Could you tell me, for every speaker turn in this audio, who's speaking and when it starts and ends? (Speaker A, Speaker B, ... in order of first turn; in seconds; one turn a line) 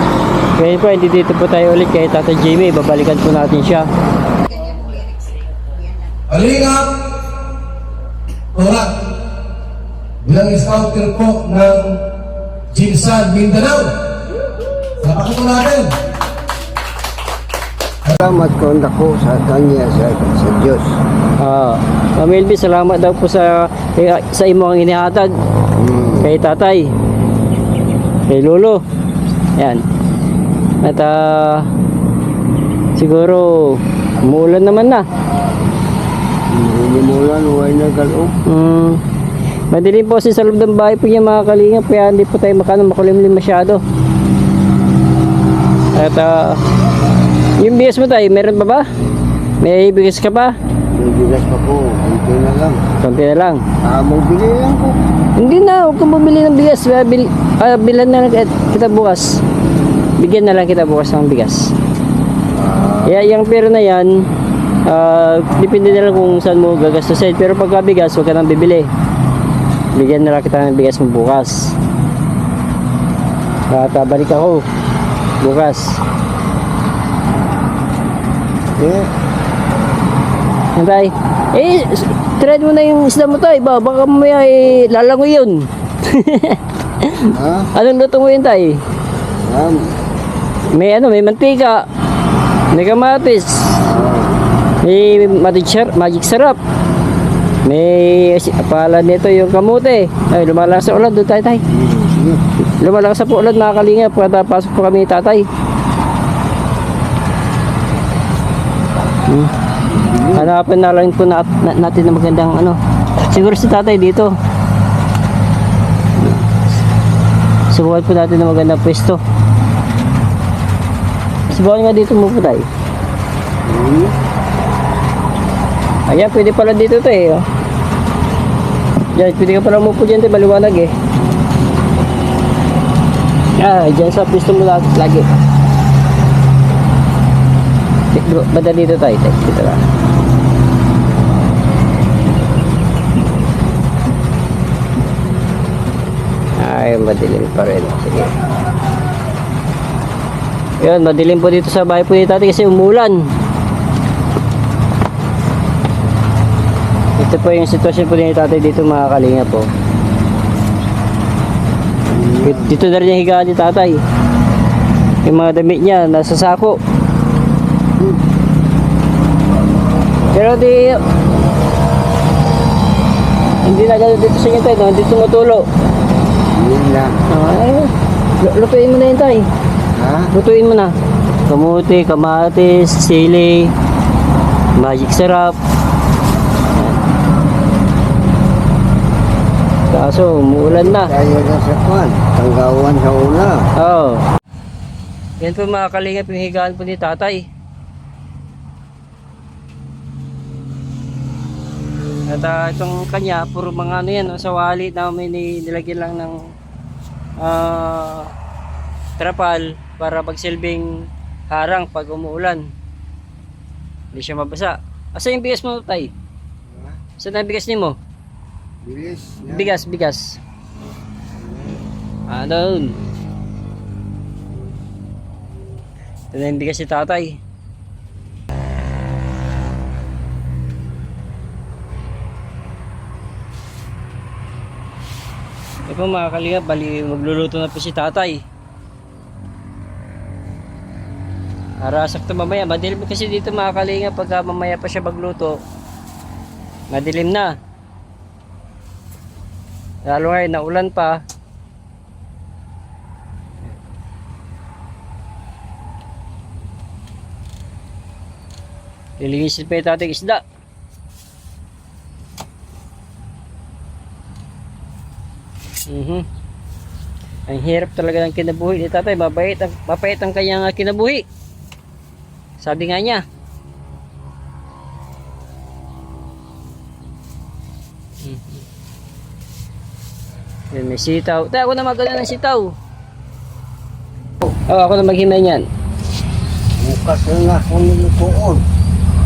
Speaker A: 0.6-3.9
Speaker B: 6.3-7.0
Speaker B: 8.6-9.0
Speaker B: 10.2-12.0
Speaker B: 12.7-14.0
Speaker B: 15.0-16.0
Speaker C: 18.1-21.0
Speaker A: 21.4-25.3
Speaker C: 25.7-26.3
Speaker A: 26.2-26.9
Speaker A: 28.3-28.8
Speaker A: 29.6-29.8
Speaker A: 30.8-31.7
Speaker A: 33.0-35.0
Speaker C: 36.5-38.4
Speaker A: 38.5-39.0
Speaker A: 39.7-43.8
Speaker A: 46.0-46.6
Speaker A: 47.6-48.9
Speaker A: 49.6-50.5
Speaker C: 50.9-52.8
Speaker A: 53.0-53.6
Speaker C: 53.8-55.0
Speaker A: 55.4-59.4
Speaker A: 60.2-61.7
Speaker C: 62.5-63.2
Speaker A: 63.1-64.2
Speaker A: 64.9-68.9
Speaker A: 70.0-71.7
Speaker A: 73.7-74.7
Speaker A: 75.4-76.0
Speaker C: 78.8-79.1
Speaker A: 80.8-88.8
Speaker C: 87.3-87.7
Speaker C: 89.4-90.0
Speaker A: 90.7-91.8
Speaker A: 92.7-93.8
Speaker C: 93.8-94.4
Speaker A: 94.8-96.6
Speaker A: 97.7-101.6
Speaker C: 101.7-102.4
Speaker A: 102.8-105.5
Speaker C: 109.9-110.5
Speaker A: 110.3-114.3
Speaker A: 116.2-116.5
Speaker A: 117.7-119.2
Speaker A: 121.5-122.7
Speaker C: 123.7-124.2
Speaker A: 126.1-127.5
Speaker A: 129.2-130.9
Speaker A: 133.6-135.3
Speaker A: 138.1-139.8
Speaker A: 146.6-148.3
Speaker A: 150.8-153.3
Speaker A: 157.2-159.7
Speaker C: 162.1-162.8
Speaker A: 162.5-164.0
Speaker A: 165.2-166.8
Speaker A: 170.3-171.0
Speaker A: 173.7-175.7
Speaker C: 176.5-177.2
Speaker A: 177.3-179.5
Speaker C: 179.9-180.3
Speaker A: 180.3-180.9
Speaker A: 181.5-183.7
Speaker A: 184.8-185.6
Speaker A: 186.7-187.0
Speaker A: 189.9-191.1
Speaker C: 190.7-193.7
Speaker A: 193.8-194.2
Speaker A: 195.4-197.4
Speaker A: 202.3-206.5
Speaker A: 207.4-208.3
Speaker A: 209.2-212.7
Speaker A: 214.1-216.1
Speaker C: 216.7-217.0
Speaker A: 217.2-218.0
Speaker C: 218.8-219.8
Speaker A: 219.5-220.4
Speaker C: 221.3-221.8
Speaker A: 222.3-223.0
Speaker A: 226.3-227.4
Speaker A: 235.9-238.4
Speaker A: 241.8-245.6
Speaker A: 246.9-247.5
Speaker A: 250.1-251.2
Speaker A: 259.2-260.4
Speaker A: 265.9-266.3
Speaker A: 267.5-271.3
Speaker A: 272.6-273.2
Speaker A: 278.2-278.6
Speaker A: 280.7-282.7
Speaker A: 284.7-285.7
Speaker C: 286.8-288.6